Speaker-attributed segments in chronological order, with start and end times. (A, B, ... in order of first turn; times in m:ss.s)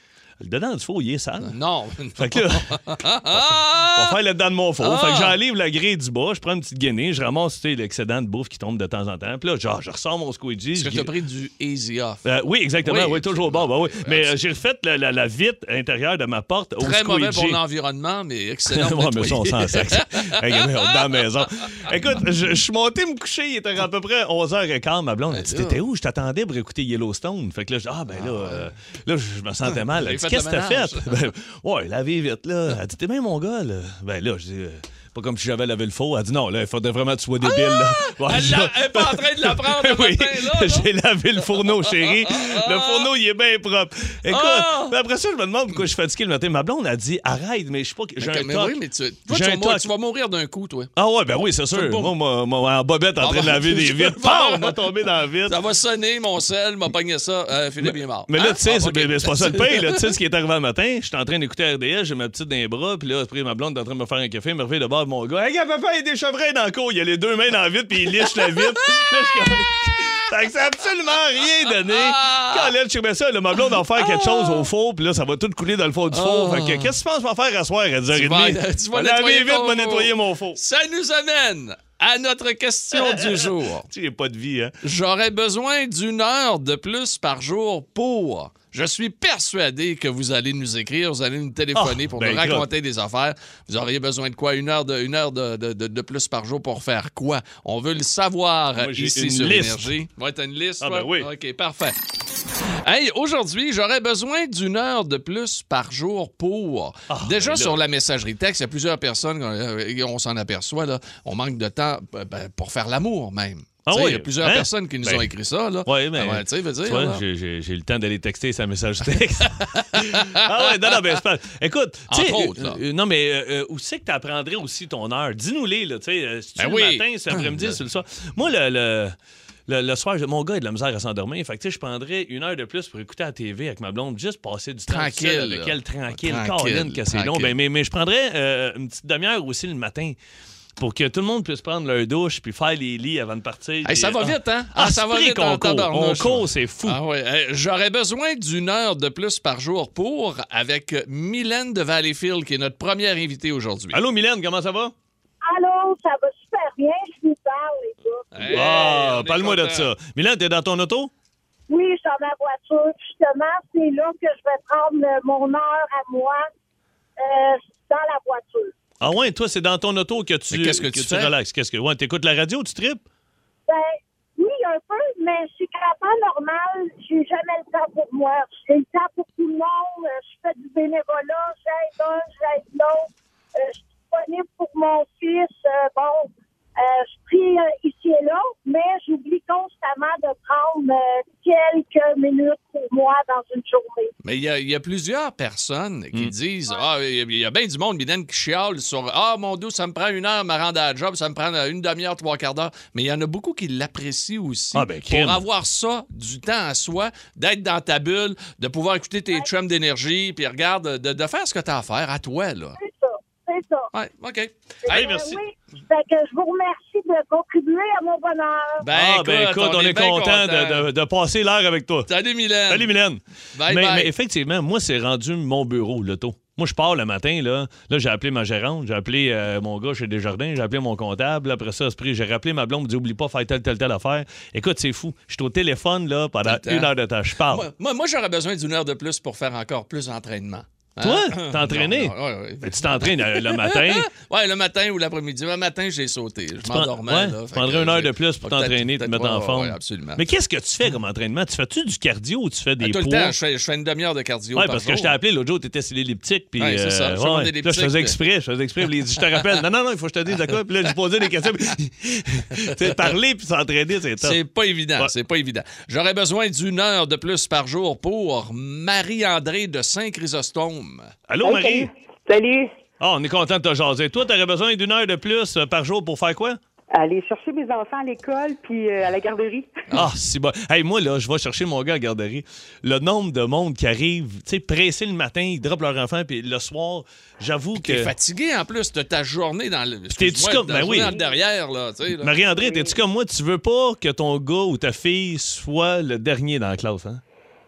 0:00.4-0:01.6 A
0:01.4-0:04.2 B
0:02.2-0:02.8 A
0:03.3-0:11.1 A
0:04.8-0:05.3 B
0:10.8-0:12.2 B
0:12.2-0:17.6 A
0:12.8-0:14.4 B
0:16.8-0:20.9 B
0:18.7-0:48.8 A
0:25.3-0:25.8 B
0:28.1-0:28.7 B
0:29.7-0:31.2 B
0:37.4-0:40.9 B
0:41.7-0:43.1 B
0:44.3-0:44.9 B
0:48.2-0:50.9 B
0:49.3-0:49.9 A
0:51.0-0:55.6 A
0:51.7-0:52.1 B
0:53.2-0:54.8 B
0:55.5-1:00.0 B
0:58.3-1:20.6 A
1:11.9-1:12.7 B
1:14.0-1:14.6 B
1:16.1-1:16.9 B
1:18.1-1:23.9 B
1:22.9-1:24.7 A
1:24.8-1:42.0 B
1:31.7-1:32.7 A
1:38.8-1:39.9 A
1:40.8-1:41.3 A
1:42.8-1:57.2 B
1:47.1-1:47.8 A
1:53.8-1:55.3 A
1:55.8-2:09.2 A
1:59.7-2:00.9 B
2:02.1-2:02.8 B
2:06.6-2:07.8 B
2:09.7-2:20.2 A
2:14.9-2:17.5 B
2:20.8-2:27.0 A
2:23.8-2:34.0 B
2:33.9-2:34.9 A
2:35.4-2:38.6 C
2:38.3-2:39.9 B
2:38.4-2:41.1 A
2:41.7-2:46.5 C
2:47.2-2:48.7 C
2:49.0-2:53.0 A
2:50.5-2:51.3 B
2:53.7-3:14.1 C
3:14.2-3:32.8 B
3:24.7-3:25.4 A
3:32.8-3:33.9 C
3:33.9-3:35.1 B
3:34.8-3:38.8 C
3:34.9-3:35.4 A
3:38.8-3:40.9 B
3:38.9-3:42.1 A
3:42.1-3:42.9 B
3:42.7-3:57.6 A
3:43.5-3:44.1 B
3:56.4-3:56.9 B
3:57.5-4:10.2 B
4:01.0-4:04.1 A
4:06.6-4:13.3 A
4:12.8-4:15.1 B
4:14.5-4:24.4 A
4:16.6-4:18.2 B
4:24.2-4:31.1 B
4:31.3-4:31.9 A
4:31.4-4:32.7 D
4:33.0-4:36.6 A
4:36.9-4:39.8 D
4:39.9-4:48.1 A
4:47.8-4:52.3 B
4:50.1-4:51.2 A
4:52.1-4:57.2 A
4:52.6-4:52.9 D